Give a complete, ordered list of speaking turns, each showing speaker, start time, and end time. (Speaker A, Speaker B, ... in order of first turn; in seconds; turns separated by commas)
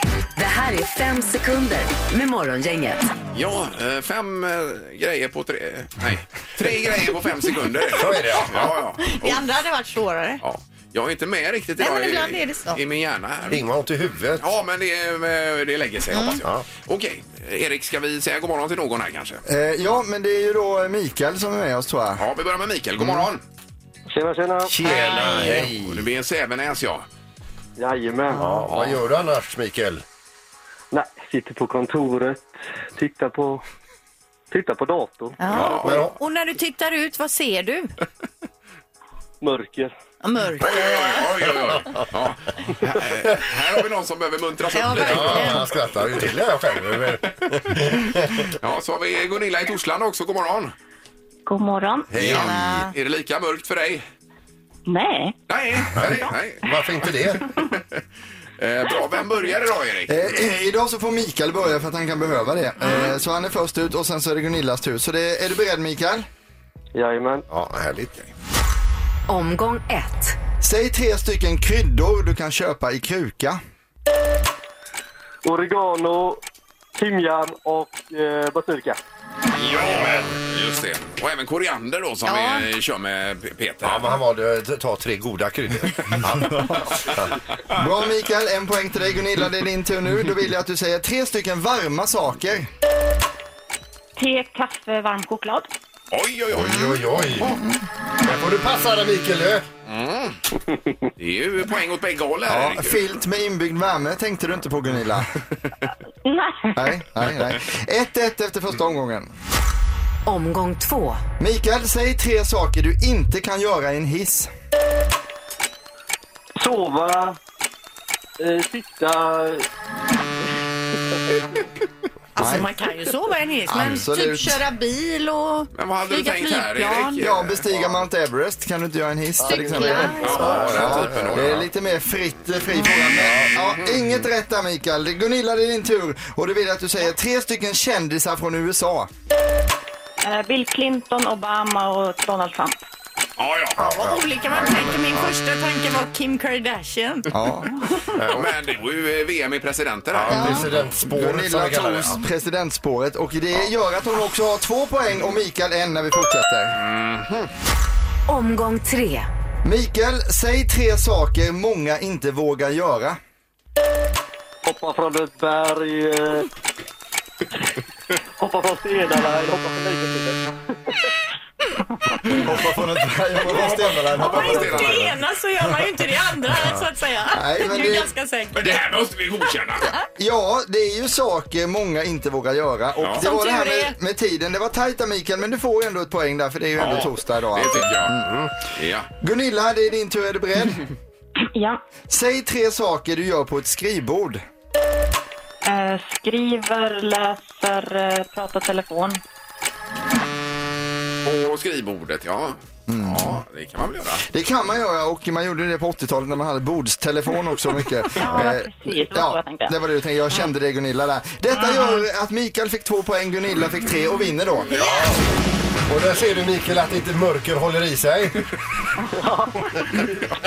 Speaker A: 0.4-3.1, Speaker B: 3.3-9.5, Speaker C: 7.9-8.7, Speaker D: 9.0-10.4, Speaker B: 10.4-13.7, Speaker D: 11.8-12.8, Speaker C: 13.5-14.5, Speaker B: 14.4-19.4, Speaker D: 16.1-16.4, Speaker E: 19.5-22.2, Speaker B: 22.2-23.4, Speaker F: 24.1-24.7, Speaker C: 24.7-26.1, Speaker D: 24.9-25.6, Speaker B: 24.9-27.1, Speaker F: 27.8-28.4, Speaker C: 28.4-30.0, Speaker B: 28.5-29.0, Speaker F: 30.9-33.6, Speaker F: 34.5-35.4, Speaker D: 35.4-37.9, Speaker B: 35.5-36.1, Speaker C: 35.5-36.1, Speaker F: 39.4-39.9, Speaker D: 40.2-41.2, Speaker B: 40.6-45.7, Speaker C: 41.7-42.0, Speaker D: 44.7-45.7, Speaker C: 44.9-48.5, Speaker B: 48.6-50.7, Speaker G: 51.5-52.1, Speaker C: 52.1-52.9, Speaker B: 52.1-54.0, Speaker D: 52.2-52.9, Speaker G: 54.9-55.4, Speaker B: 55.5-58.0, Speaker C: 55.9-57.5, Speaker B: 58.6-60.4, Speaker E: 60.1-66.3, Speaker F: 67.0-67.5, Speaker C: 67.5-68.3, Speaker A: 69.3-70.4, Speaker E: 70.6-73.6, Speaker F: 75.4-76.4, Speaker F: 77.0-79.0, Speaker B: 79.5-84.2, Speaker C: 79.7-80.3, Speaker D: 82.3-82.7, Speaker C: 83.8-87.4, Speaker E: 86.5-87.0, Speaker E: 87.7-92.7, Speaker G: 94.2-95.7, Speaker B: 96.1-97.6, Speaker C: 96.5-97.6, Speaker E: 97.4-97.8, Speaker C: 98.2-99.7, Speaker B: 99.9-100.4, Speaker B: 101.2-103.0, Speaker E: 102.5-105.3, Speaker G: 106.2-107.0, Speaker E: 106.8-109.3, Speaker A: 110.3-111.2, Speaker E: 111.4-114.5, Speaker F: 116.6-117.4, Speaker F: 118.4-119.7, Speaker E: 122.4-122.7, Speaker D: 122.4-127.2, Speaker E: 123.7-124.6, Speaker B: 125.8-127.7, Speaker E: 127.2-139.1, Speaker F: 129.4-130.1, Speaker D: 129.4-130.9, Speaker B: 130.2-131.7, Speaker C: 130.2-131.7, Speaker C: 133.2-133.5, Speaker B: 133.4-134.0, Speaker G: 140.2-142.8, Speaker B: 143.4-143.8, Speaker D: 143.8-148.1, Speaker C: 143.8-145.3, Speaker E: 147.3-147.7, Speaker C: 148.2-148.5, Speaker B: 148.3-150.8, Speaker C: 150.1-152.2, Speaker D: 150.3-150.7, Speaker E: 150.3-156.8, Speaker B: 156.8-157.5, Speaker A: 158.3-159.3, Speaker E: 159.6-163.2, Speaker F: 164.7-166.5, Speaker F: 168.4-170.4, Speaker E: 172.3-175.2, Speaker B: 173.4-175.2, Speaker D: 174.2-178.8, Speaker E: 177.3-178.1, Speaker B: 178.5-179.9, Speaker E: 180.1-188.3, Speaker B: 183.0-183.2, Speaker D: 183.2-184.0, Speaker B: 186.8-188.1, Speaker C: 188.2-188.5, Speaker B: 188.7-189.1, Speaker E: 189.2-190.9, Speaker G: 191.5-191.8, Speaker E: 192.1-194.4, Speaker G: 195.6-199.2, Speaker B: 201.2-204.2, Speaker E: 202.9-203.4, Speaker E: 204.3-214.9, Speaker G: 208.2-209.8, Speaker C: 214.8-215.2, Speaker C: 215.9-218.5, Speaker F: 219.2-220.1